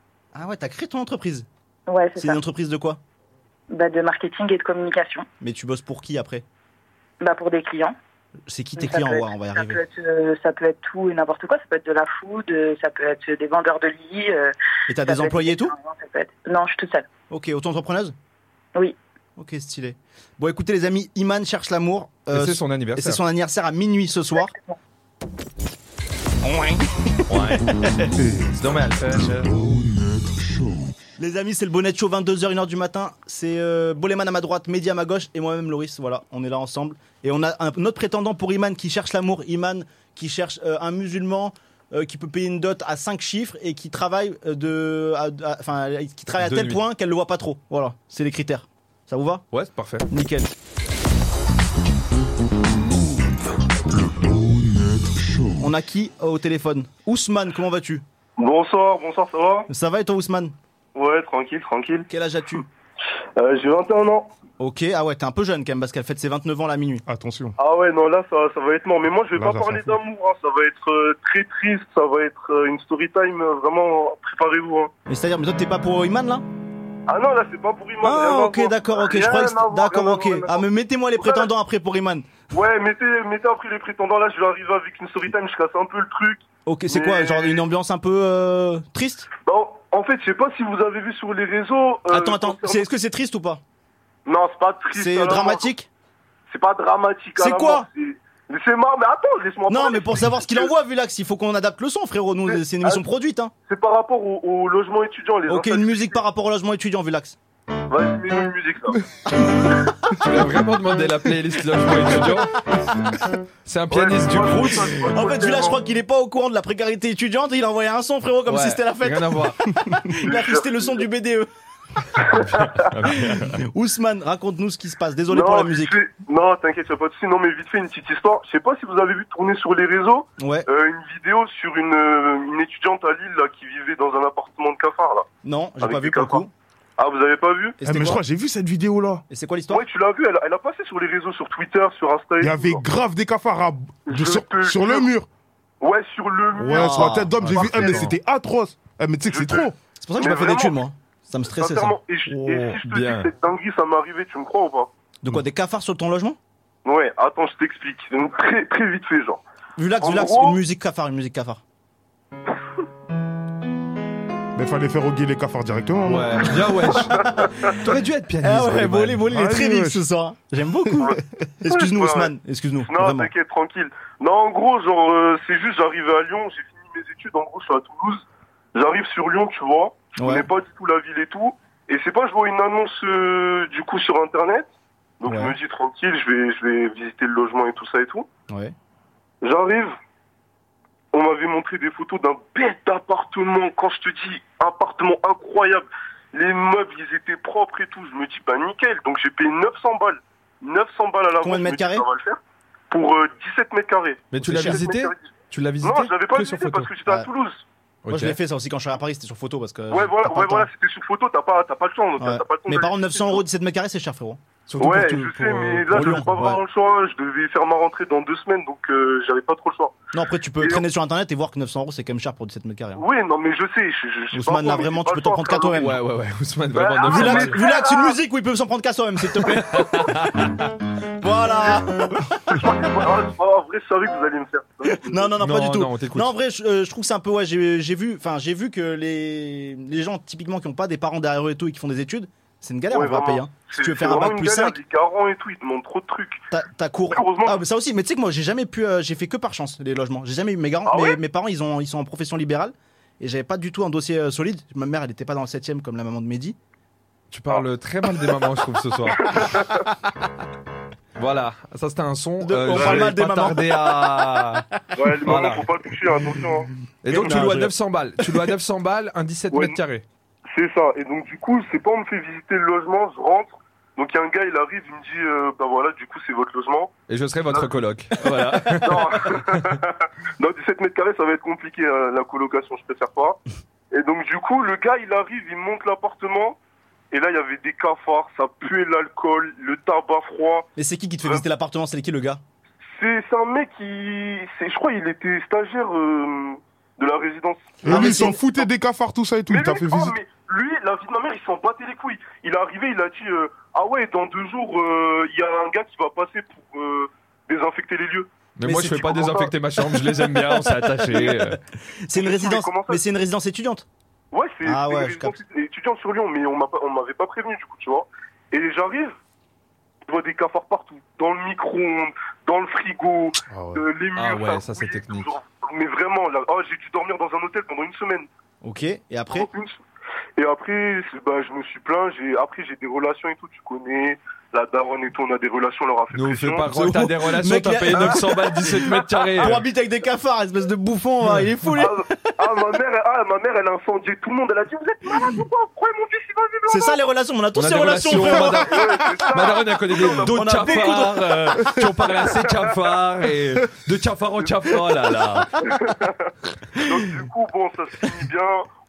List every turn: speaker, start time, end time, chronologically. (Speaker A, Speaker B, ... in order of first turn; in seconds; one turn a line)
Speaker A: 0.3-1.5
Speaker B: 1.9-2.4
Speaker A: 2.2-3.0
Speaker B: 3.7-5.3
Speaker A: 5.4-6.4
Speaker B: 7.2-8.0
Speaker A: 8.5-9.8
Speaker B: 8.8-14.5
Speaker A: 14.9-15.7
Speaker B: 15.1-17.1
Speaker A: 17.3-18.1
Speaker A: 19.4-24.5
Speaker C: 22.3-23.2
Speaker B: 24.4-24.8
Speaker A: 26.4-27.2
Speaker C: 27.3-27.7
Speaker A: 27.8-28.1
Speaker D: 28.2-28.5
Speaker C: 28.6-29.5
Speaker A: 31.2-49.5
Speaker C: 46.4-46.8
Speaker C: 49.5-50.1
Speaker A: 50.1-50.5
Speaker A: 55.6-58.0
Speaker E: 58.4-59.7
Speaker A: 59.7-60.5
Speaker E: 61.0-62.1
Speaker A: 62.1-62.6
Speaker E: 63.4-64.3
Speaker A: 64.6-67.0
Speaker D: 67.1-67.5
Speaker E: 67.6-74.9
Speaker D: 69.3-70.0
Speaker A: 75.1-76.4
Speaker E: 77.1-80.7
Speaker A: 78.0-82.4
Speaker E: 81.2-81.5
Speaker E: 82.5-87.6
Speaker A: 86.7-89.3
Speaker E: 89.5-92.9
Speaker A: 92.1-93.6
Speaker E: 94.3-95.7
Speaker A: 94.9-95.9
Speaker E: 96.5-100.7
Speaker A: 97.4-97.9
Speaker A: 99.7-103.5
Speaker E: 102.5-103.0
Speaker E: 103.7-106.2
Speaker A: 105.5-107.4
Speaker E: 107.9-109.0
Speaker C: 110.2-112.5
Speaker C: 113.7-115.1
Speaker E: 113.9-115.8
Speaker A: 115.1-121.5
Speaker C: 118.5-119.6
Speaker E: 120.2-121.0
Speaker C: 122.3-123.6
Speaker E: 122.4-122.8
Speaker A: 123.3-126.0
Speaker E: 125.3-135.3
Speaker A: 130.4-130.7
Speaker A: 135.4-136.5
Speaker E: 135.8-136.4
Speaker E: 137.0-137.8
Speaker A: 137.8-138.2
Speaker D: 137.8-139.2
Speaker A: 139.3-139.9
Speaker E: 139.7-142.8
Speaker D: 142.4-145.3
Speaker E: 144.1-145.1
Speaker E: 145.8-148.0
Speaker D: 146.6-149.8
Speaker A: 146.7-148.0
Speaker C: 147.8-148.1
Speaker E: 149.3-150.8
Speaker A: 150.0-152.0
Speaker E: 151.5-154.9
Speaker C: 152.3-153.3
Speaker A: 155.2-156.4
Speaker E: 156.8-159.4
Speaker A: 159.8-161.6
Speaker E: 160.0-160.6
Speaker D: 164.6-166.5
Speaker C: 166.1-169.2
Speaker E: 167.2-167.7
Speaker A: 168.4-173.3
Speaker D: 169.3-170.0
Speaker E: 171.7-172.3
Speaker E: 172.8-184.7
Speaker A: 180.2-180.5
Speaker E: 185.2-188.3
Speaker A: 185.3-185.6
Speaker A: 188.5-188.7
Speaker E: 189.4-189.9
Speaker E: 191.1-202.4
Speaker A: 201.4-202.1
Speaker E: 202.9-205.2
Speaker C: 204.3-206.9
Speaker A: 204.4-204.8
Speaker E: 205.8-207.6
Speaker C: 208.1-208.4
Speaker A: 208.1-210.7
Speaker E: 209.9-213.4
Speaker A: 212.2-215.0
Speaker C: 214.7-216.3
Speaker E: 214.8-220.0
Speaker A: 215.6-216.6
Speaker A: 220.1-223.0
Speaker E: 223.0-225.8
Speaker A: 224.3-226.0
Speaker C: 225.8-227.6
Speaker E: 226.7-228.2
Speaker A: 227.1-230.3
Speaker C: 229.4-230.7
Speaker A: 231.2-232.8
Speaker E: 232.5-235.3
Speaker A: 234.9-244.8
Speaker C: 235.4-236.3
Speaker E: 242.9-246.4
Speaker A: 246.5-256.6
Speaker E: 247.1-247.6
Speaker E: 250.9-251.2
Speaker C: 257.3-259.4
Speaker E: 259.2-259.8
Speaker C: 261.2-264.7
Speaker A: 262.4-264.4
Speaker E: 262.7-263.0
Speaker E: 265.0-266.7
Speaker C: 265.2-265.7
Speaker C: 267.0-270.0
Speaker A: 267.1-267.7
Speaker E: 269.5-269.8
Speaker E: 270.5-276.9
Speaker C: 277.1-279.8
Speaker E: 278.8-283.4
Speaker E: 283.9-286.6
Speaker E: 287.1-290.7
Speaker A: 290.8-292.4
Speaker E: 292.9-298.6
Speaker D: 297.8-300.2
Speaker A: 297.8-298.4
Speaker E: 299.5-308.3
Speaker C: 308.6-311.6
Speaker A: 308.6-309.1
Speaker E: 309.0-309.5
Speaker A: 309.9-310.6
Speaker A: 312.1-313.9
Speaker E: 312.1-313.0
Speaker E: 314.3-319.2
Speaker A: 314.6-315.4
Speaker E: 320.1-328.3
Speaker D: 323.5-323.8
Speaker C: 324.1-325.3
Speaker A: 328.6-329.5
Speaker E: 329.3-329.8
Speaker E: 330.4-336.7
Speaker C: 336.1-339.6
Speaker A: 336.7-342.3
Speaker E: 339.2-339.6
Speaker E: 341.8-347.0
Speaker A: 346.7-348.7
Speaker C: 347.6-355.7
Speaker E: 348.4-351.1
Speaker A: 350.1-351.7
Speaker E: 352.1-352.7
Speaker E: 355.6-356.3
Speaker E: 356.8-358.7